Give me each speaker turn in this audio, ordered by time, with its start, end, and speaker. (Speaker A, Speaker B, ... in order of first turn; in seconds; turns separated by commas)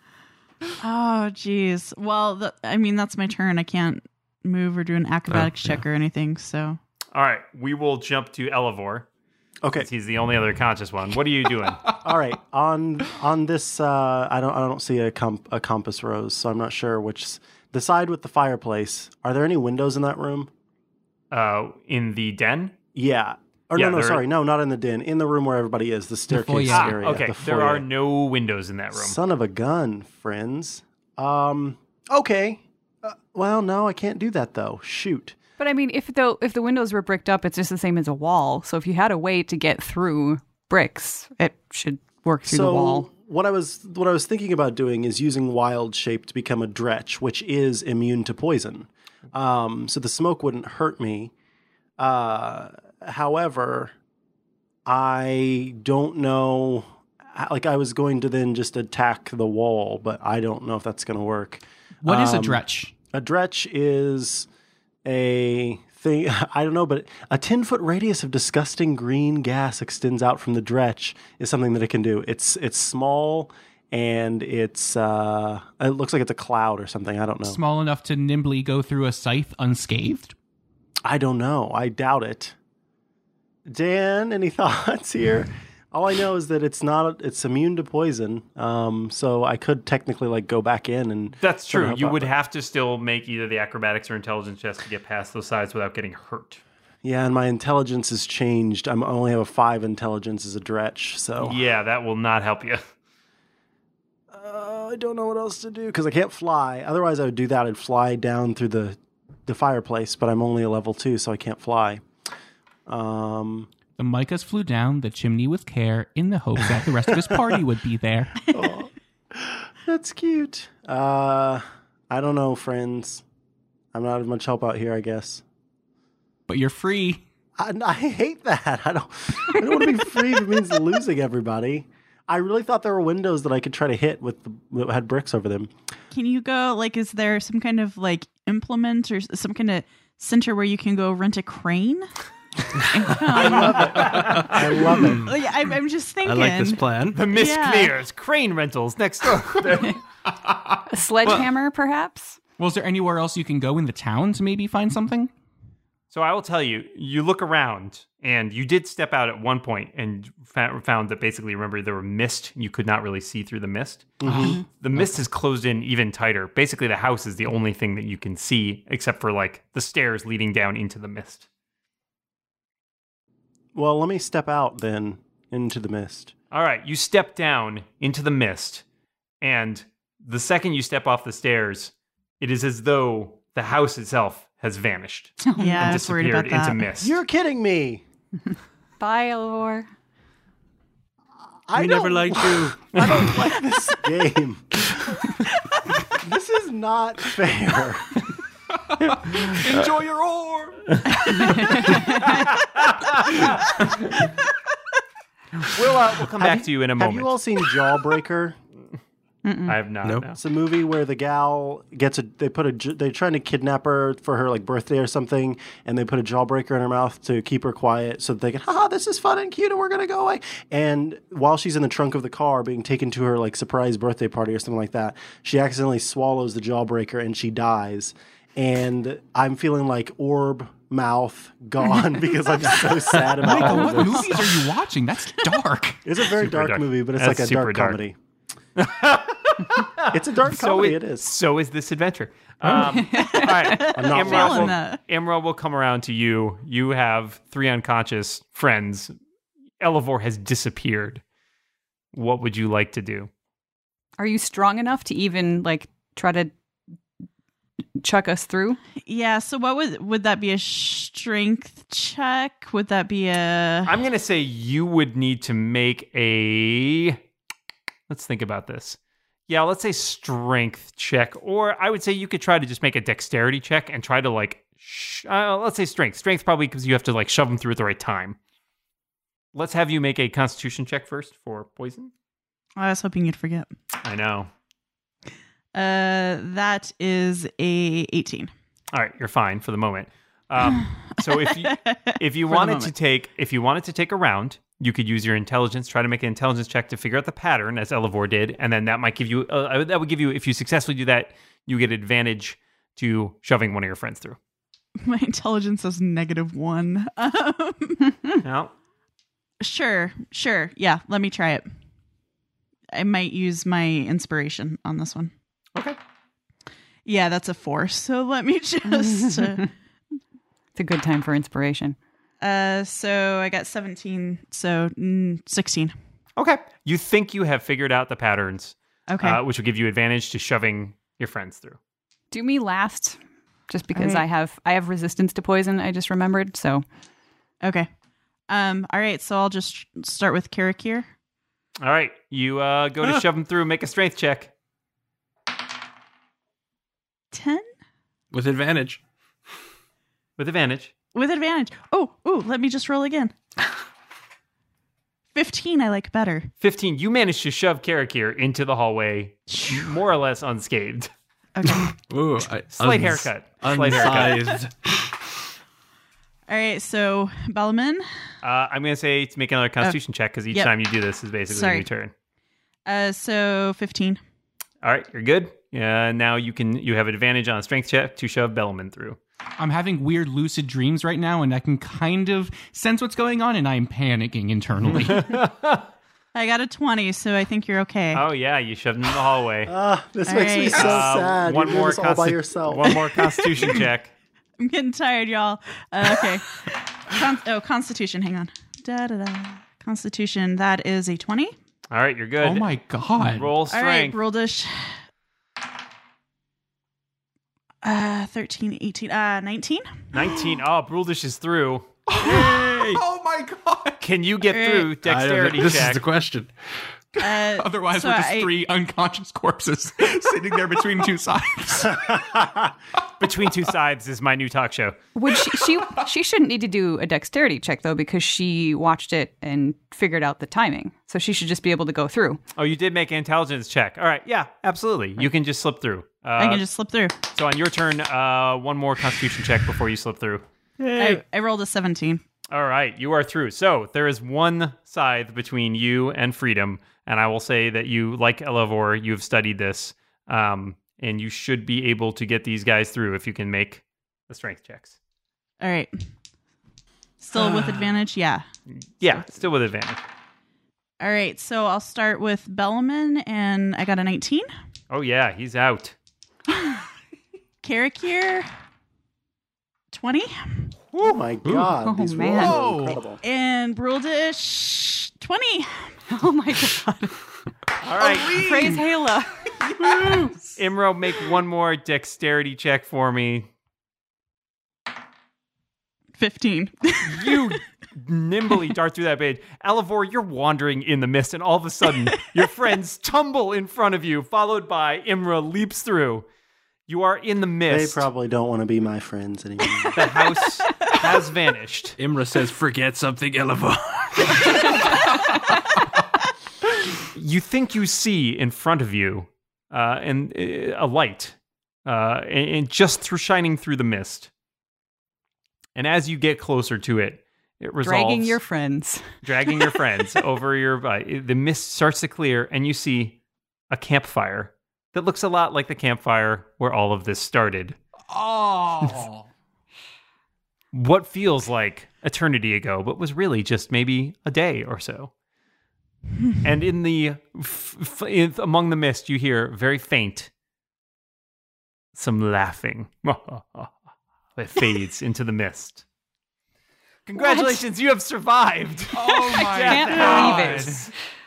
Speaker A: 0.8-6.8, Speaker B: 7.1-9.1, Speaker C: 9.6-9.9, Speaker B: 9.7-11.9, Speaker C: 11.9-20.5, Speaker B: 21.3-22.7, Speaker C: 22.9-27.8, Speaker B: 23.7-24.2, Speaker D: 26.3-27.0, Speaker B: 26.7-29.2, Speaker C: 28.9-35.3, Speaker E: 35.6-43.1, Speaker C: 42.5-51.3, Speaker C: 52.0-53.9, Speaker C: 54.9-64.5, Speaker D: 62.0-62.9, Speaker C: 65.0-77.6, Speaker D: 77.4-80.3, Speaker C: 81.0-82.5, Speaker C: 83.7-92.3, Speaker B: 91.4-96.6, Speaker C: 97.0-101.6, Speaker B: 101.4-102.8, Speaker C: 104.3-112.0, Speaker C: 112.9-113.7, Speaker D: 114.0-118.4, Speaker C: 118.5-123.2, Speaker C: 123.9-125.4, Speaker D: 126.5-127.2, Speaker C: 127.6-135.7, Speaker A: 136.1-142.1, Speaker A: 142.8-144.0, Speaker C: 143.4-145.3, Speaker F: 143.9-145.3, Speaker B: 144.0-144.5, Speaker A: 145.1-148.0, Speaker F: 146.2-147.3, Speaker B: 147.1-150.0, Speaker E: 150.9-152.4, Speaker D: 152.6-155.3, Speaker B: 156.1-171.4, Speaker C: 164.2-164.6, Speaker D: 164.2-164.6, Speaker C: 173.7-176.3, Speaker B: 176.5-178.8, Speaker B: 179.4-187.2, Speaker E: 185.4-185.9, Speaker A: 185.6-186.9, Speaker C: 187.0-188.0, Speaker E: 189.0-189.9, Speaker C: 191.7-195.4, Speaker F: 191.7-192.8, Speaker C: 196.0-198.2, Speaker D: 198.9-199.9, Speaker F: 199.6-200.8, Speaker B: 200.9-204.2, Speaker D: 201.6-202.0, Speaker B: 205.7-207.3, Speaker C: 206.4-208.6, Speaker E: 209.4-209.7, Speaker B: 209.7-210.4, Speaker C: 210.4-234.5, Speaker D: 233.3-236.0, Speaker C: 236.0-238.1, Speaker B: 236.3-238.0, Speaker B: 238.8-249.1, Speaker C: 240.1-241.3, Speaker E: 242.7-243.9, Speaker A: 243.2-245.0, Speaker C: 243.9-244.7, Speaker B: 249.8-251.2, Speaker B: 252.1-253.3, Speaker E: 254.2-256.5, Speaker E: 258.0-258.8, Speaker A: 259.0-263.9, Speaker B: 263.9-267.2, Speaker B: 268.1-278.4, Speaker B: 279.5-282.1, Speaker A: 282.8-283.7, Speaker B: 284.0-284.5, Speaker A: 285.7-288.5, Speaker B: 288.9-304.4, Speaker A: 291.3-292.9, Speaker A: 305.0-308.4, Speaker B: 308.4-308.7, Speaker A: 309.6-311.7, Speaker A: 312.9-315.3, Speaker A: 317.0-319.6, Speaker E: 318.9-319.7, Speaker E: 320.7-322.0, Speaker A: 322.4-325.9, Speaker B: 326.4-331.8, Speaker A: 329.1-329.4, Speaker E: 332.3-333.2, Speaker E: 333.7-336.8, Speaker A: 333.9-334.2, Speaker A: 337.6-337.9, Speaker A: 338.5-341.1, Speaker B: 341.8-344.5, Speaker A: 347.3-347.7, Speaker F: 348.3-349.0, Speaker B: 350.4-350.9, Speaker A: 351.1-353.3, Speaker A: 355.3-356.5, Speaker B: 356.6-361.1, Speaker A: 359.5-359.8, Speaker A: 361.6-361.9, Speaker F: 361.6-365.2, Speaker B: 362.7-364.5, Speaker A: 366.5-368.0, Speaker B: 368.4-372.1, Speaker A: 371.5-371.9, Speaker A: 372.9-374.2, Speaker B: 374.8-379.2, Speaker D: 379.6-385.4, Speaker B: 384.9-385.9, Speaker A: 386.3-388.2, Speaker B: 388.1-389.7, Speaker C: 389.7-393.0, Speaker A: 390.2-390.9, Speaker B: 390.7-394.1, Speaker A: 394.6-401.5, Speaker B: 401.9-404.2, Speaker D: 402.4-403.6, Speaker A: 403.7-405.0, Speaker A: 407.8-410.1, Speaker B: 410.1-411.9, Speaker D: 412.1-414.0, Speaker F: 412.2-413.0, Speaker B: 414.0-416.0, Speaker A: 414.5-414.9, Speaker F: 415.0-416.5, Speaker D: 417.1-422.3, Speaker A: 417.2-418.5, Speaker B: 423.2-425.0, Speaker E: 425.1-432.4, Speaker D: 425.5-425.8, Speaker B: 432.6-436.6, Speaker A: 436.4-437.1, Speaker B: 437.3-441.2, Speaker A: 440.9-442.2, Speaker B: 442.5-454.9, Speaker A: 455.6-455.9, Speaker A: 457.2-458.4, Speaker B: 459.0-460.0, Speaker A: 461.0-464.5, Speaker B: 464.9-465.9, Speaker A: 467.6-468.5, Speaker A: 469.9-470.7, Speaker C: 470.9-473.2, Speaker E: 471.8-472.6, Speaker F: 472.4-473.0, Speaker A: 473.2-476.0, Speaker E: 476.1-477.2, Speaker B: 477.8-478.8, Speaker D: 478.0-478.8, Speaker E: 478.3-479.4, Speaker D: 479.6-480.6, Speaker B: 480.6-483.5, Speaker A: 486.2-487.6, Speaker B: 487.0-496.2, Speaker B: 496.9-498.1, Speaker C: 497.7-499.9, Speaker B: 499.9-501.9, Speaker F: 502.0-505.0, Speaker B: 507.1-514.3, Speaker B: 515.7-518.4, Speaker E: 517.8-519.8, Speaker B: 519.2-523.2, Speaker B: 523.7-527.8, Speaker D: 528.1-529.2, Speaker B: 528.8-529.0, Speaker B: 530.7-535.1, Speaker B: 536.4-540.3, Speaker B: 541.9-543.7, Speaker B: 544.4-545.8, Speaker B: 547.0-550.9, Speaker E: 547.2-547.6, Speaker D: 548.9-550.9, Speaker E: 549.6-550.7